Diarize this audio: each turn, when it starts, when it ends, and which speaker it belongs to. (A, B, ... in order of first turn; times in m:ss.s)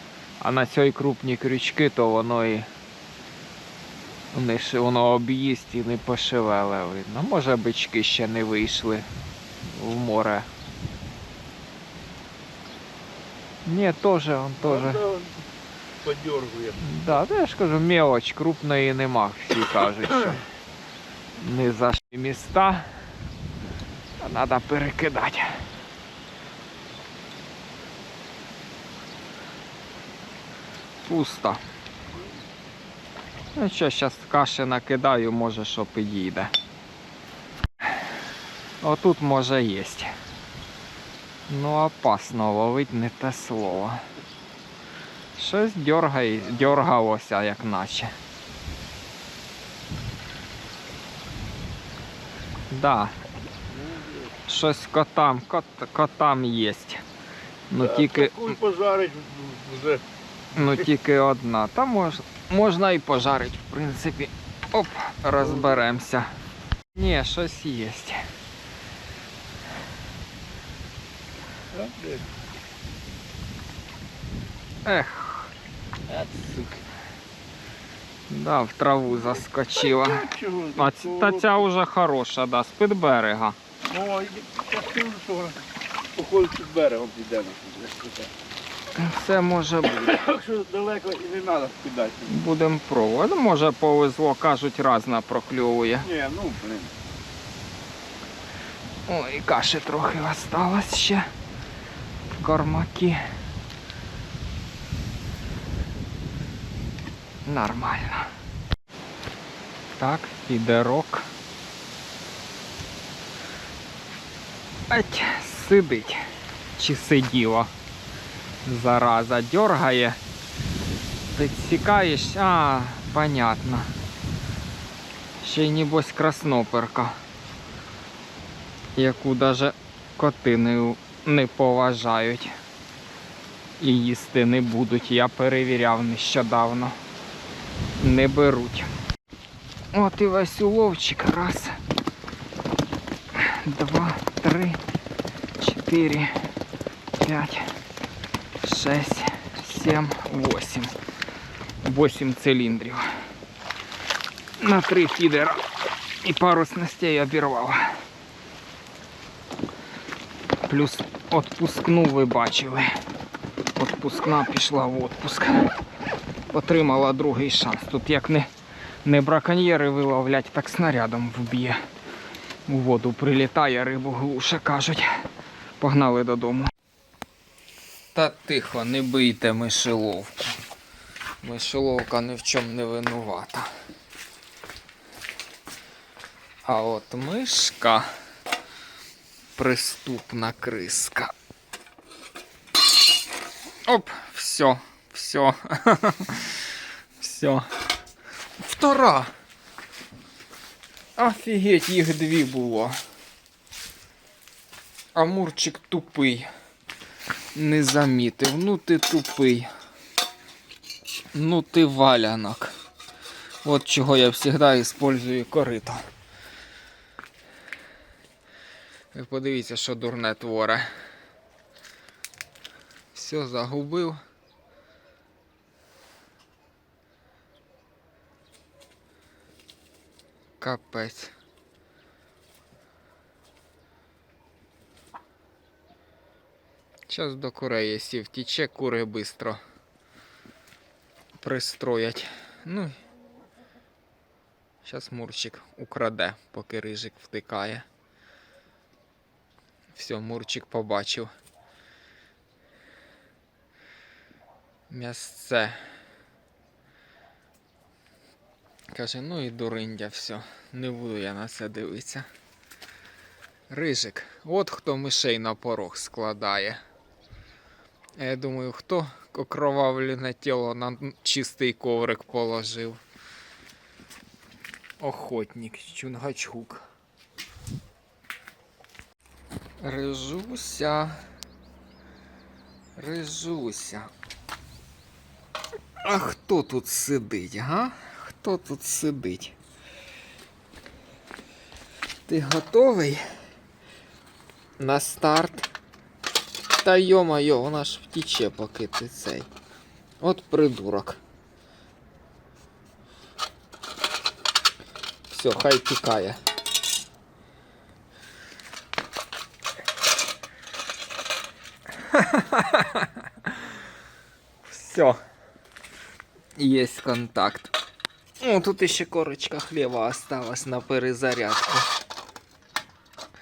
0:00.4-0:02.7 A
0:04.3-0:09.0 A
0:09.6-0:10.5 A
0:13.6-0:15.0 A
0:14.7-0:15.3 B
0:16.0-0:16.8 B
0:16.8-0:20.4 A
0:21.4-0:22.9 A
0:24.2-0:25.6 A
0:31.0-0:31.6 A
0:33.5-0:36.5 A
0:38.8-0:40.1 A
0:41.5-0:44.0 A
0:45.3-0:48.1 A
0:52.7-0:53.1 A
0:54.4-0:57.0 A
0:57.7-0:58.6 A
0:57.8-1:00.0 B
1:00.5-1:06.3 A
1:06.9-1:08.2 A
1:11.7-1:12.3 B
1:14.8-1:15.5 A
1:16.1-1:16.8 B
1:18.3-1:23.6 A
1:20.0-1:21.5 B
1:23.9-1:25.6 B
1:26.1-1:28.3 B
1:28.9-1:30.2 A
1:30.1-1:32.3 B
1:32.2-1:36.1 A
1:36.0-1:36.9 B
1:39.1-1:41.3 A
1:42.4-1:43.2 A
1:47.4-1:48.3 A
1:49.9-1:51.3 A
1:54.9-1:56.2 A
1:56.8-1:57.7 A
1:58.6-2:00.2 A
2:01.3-2:03.9 A
2:05.4-2:07.2 A
2:09.0-2:12.5 A
2:13.8-2:17.0 A
2:18.0-2:18.9 A
2:19.9-2:21.8 A
2:23.3-2:24.8 A
2:25.6-2:26.4 A
2:27.2-2:27.7 A
2:28.6-2:30.9 A
2:31.8-2:33.1 A
2:34.6-2:35.6 A
2:36.2-2:38.0 A
2:40.7-2:42.9 A
2:43.8-2:45.7 A
2:46.5-2:48.5 A
2:49.0-2:51.8 A
2:52.6-2:55.2 A
2:55.8-2:56.7 A
2:58.1-3:00.5 A
3:01.4-3:03.7 A
3:06.6-3:08.1 A
3:09.6-3:11.3 A
3:13.8-3:16.6 A
3:17.2-3:17.6 A
3:18.6-3:19.3 A
3:21.2-3:22.9 A
3:25.1-3:26.5 A
3:27.5-3:29.7 A
3:31.3-3:32.7 A
3:33.6-3:36.0 A
3:39.1-3:40.9 A
3:43.1-3:44.2 A
3:50.6-3:51.3 A
3:57.1-3:59.6 A
4:01.4-4:03.0 A
4:04.8-4:07.8 A
4:09.9-4:11.3 A
4:14.9-4:15.8 A
4:18.9-4:22.3 A
4:23.7-4:26.8 A
4:28.2-4:33.0 A
4:35.0-4:36.8 A
4:39.8-4:41.2 A
4:43.0-4:44.1 A
4:46.0-4:49.6 A
4:52.3-4:53.2 A
4:54.8-4:55.7 A
4:56.8-4:59.5 A
5:00.2-5:01.2 A
5:05.3-5:06.4 A
5:12.1-5:13.1 A
5:14.6-5:15.2 A
5:16.6-5:17.7 A
5:18.4-5:21.9 A